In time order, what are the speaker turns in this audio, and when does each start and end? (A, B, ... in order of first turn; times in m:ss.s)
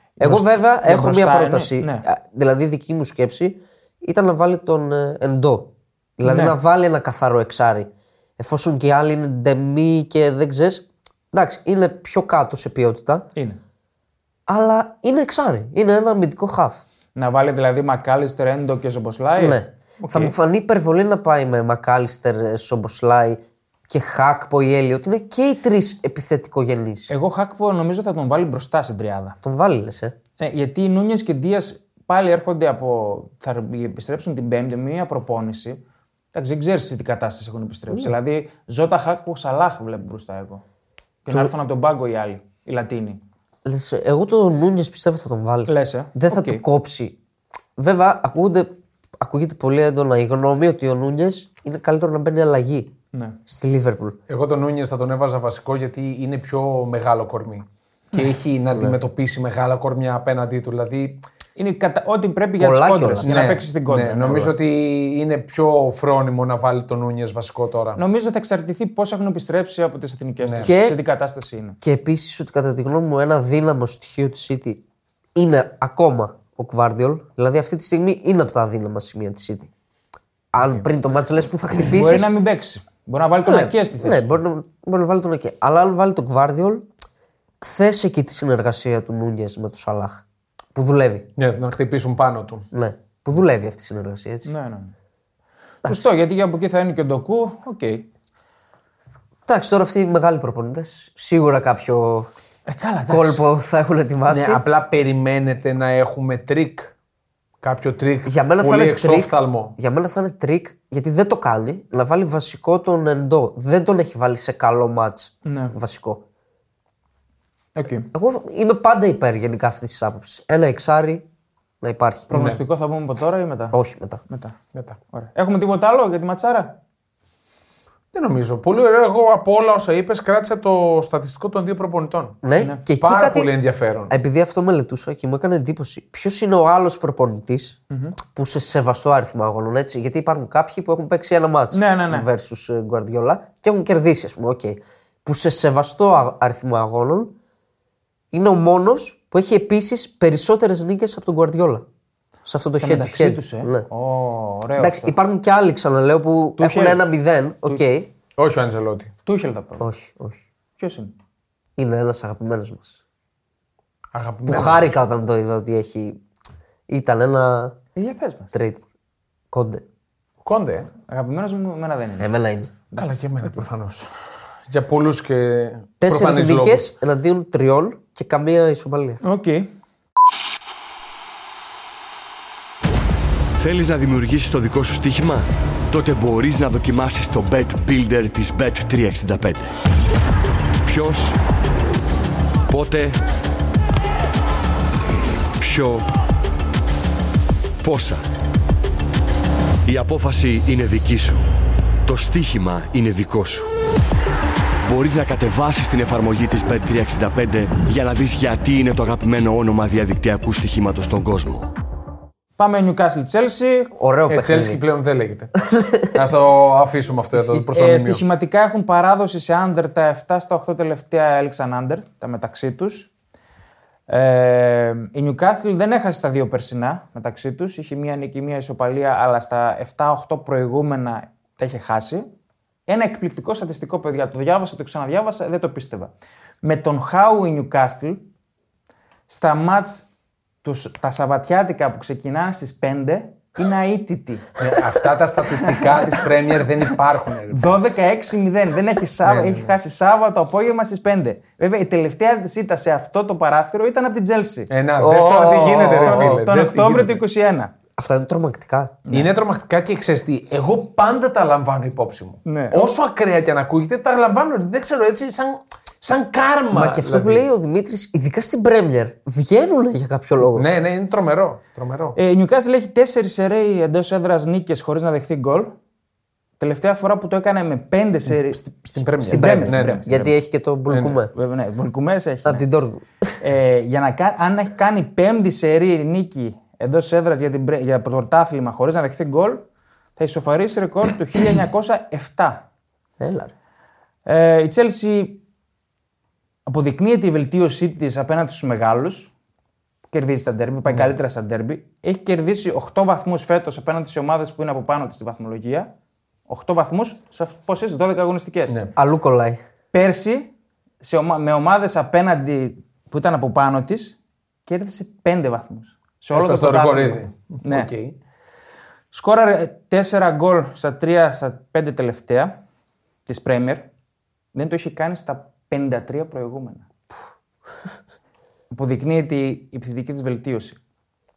0:00.2-0:02.1 A
0:00.2-0:13.3 B
0:06.2-0:06.6 A
0:14.5-0:16.8 B
0:17.2-0:20.4 A
0:19.4-0:27.1 B
0:27.1-0:29.4 A
0:29.4-0:30.1 B
0:30.4-0:35.8 A
0:36.3-0:40.6 A
0:41.2-0:43.2 A
0:43.6-0:47.2 B
0:45.7-0:46.6 A
0:47.8-0:52.9 B
0:53.1-0:53.4 A
0:53.5-0:54.2 B
0:54.3-1:01.2 C
1:01.6-1:04.6 A
1:02.6-1:03.4 B
1:03.2-1:08.0 C
1:08.0-1:11.8 A
1:10.4-1:10.7 C
1:10.6-1:11.0 B
1:11.8-1:14.8 B
1:15.4-1:19.7 B
1:20.5-1:22.3 B
1:21.8-1:24.4 A
1:23.4-1:26.9 B
1:27.6-1:30.2 B
1:30.8-1:31.3 B
1:31.4-1:32.7 C
1:32.7-1:34.5 B
1:34.5-1:34.9 A
1:35.8-1:38.1 A
1:39.5-1:42.3 B
1:42.7-1:43.4 A
1:43.1-1:44.6 B
1:44.3-1:46.9 C
1:47.6-1:49.8 C
1:48.3-1:56.2 B
1:55.4-1:55.8 A
1:57.8-1:58.1 A
1:58.1-2:01.2 B
2:01.8-2:02.3 B
2:02.3-2:03.8 A
2:02.3-2:02.6 C
2:03.7-2:04.2 B
2:04.3-2:04.6 A
2:05.1-2:06.8 A
2:08.1-2:12.4 C
2:12.4-2:13.5 B
2:13.0-2:14.1 C
2:14.1-2:17.8 B
2:17.9-2:18.2 A
2:18.3-2:27.3 B
2:21.7-2:22.3 A
2:28.3-2:31.8 B
2:32.5-2:33.9 B
2:32.8-2:35.2 A
2:34.8-2:38.1 B
2:36.6-2:37.0 A
2:38.4-2:39.1 C
2:39.3-2:39.8 A
2:39.8-2:40.4 B
2:40.8-2:41.2 A
2:41.8-2:43.0 B
2:44.1-2:44.9 C
2:44.5-2:46.2 B
2:46.9-2:47.8 B
2:48.0-2:48.5 A
2:48.5-2:48.8 B
2:49.5-2:49.8 B
2:50.4-2:50.9 C
2:51.1-2:52.3 A
2:52.2-2:52.7 B
2:52.9-2:53.6 A
2:53.0-2:54.1 C
2:54.7-2:56.9 C
2:56.0-2:59.2 B
2:59.2-2:59.7 A
3:03.6-3:09.7 D
3:10.8-3:11.4 D
3:12.7-3:13.2 D
3:15.6-3:16.1 D
3:17.8-3:18.2 D
3:19.9-3:21.4 D
3:22.0-3:23.7 D
3:24.8-3:31.7 D
3:32.6-3:33.9 A
3:34.0-3:34.8 B
3:34.3-3:38.2 C
3:35.7-3:36.1 B
3:37.4-3:43.1 A
3:44.1-3:52.3 A
3:52.9-3:58.2 A
3:59.3-4:00.1 A
4:00.6-4:04.5 A
4:04.6-4:07.8 C
4:05.6-4:06.2 A
4:07.5-4:14.7 A
4:09.2-4:09.8 C
4:14.7-4:17.2 C
4:15.0-4:16.4 B
4:16.0-4:17.7 A
4:18.0-4:19.0 B
4:19.1-4:19.3 A
4:19.1-4:27.5 C
4:22.5-4:22.9 A
4:26.7-4:30.7 B
4:30.5-4:32.2 C
4:32.2-4:35.7 A
4:36.6-4:40.4 A
4:38.9-4:40.0 C
4:39.3-4:41.3 B
4:41.3-4:42.6 A
4:42.4-4:43.4 B
4:43.4-4:49.7 A
4:50.2-4:52.6 A
4:53.2-4:53.5 B
4:54.3-4:55.4 A
4:56.7-4:59.3 A
5:00.1-5:05.9 A
5:06.5-5:08.8 A
5:08.7-5:08.9 C
5:09.0-5:09.6 B
5:09.9-5:17.9 A
5:16.3-5:18.2 C
5:19.1-5:22.6 A
5:23.3-5:23.9 A
5:24.5-5:26.9 A
5:28.7-5:30.8 A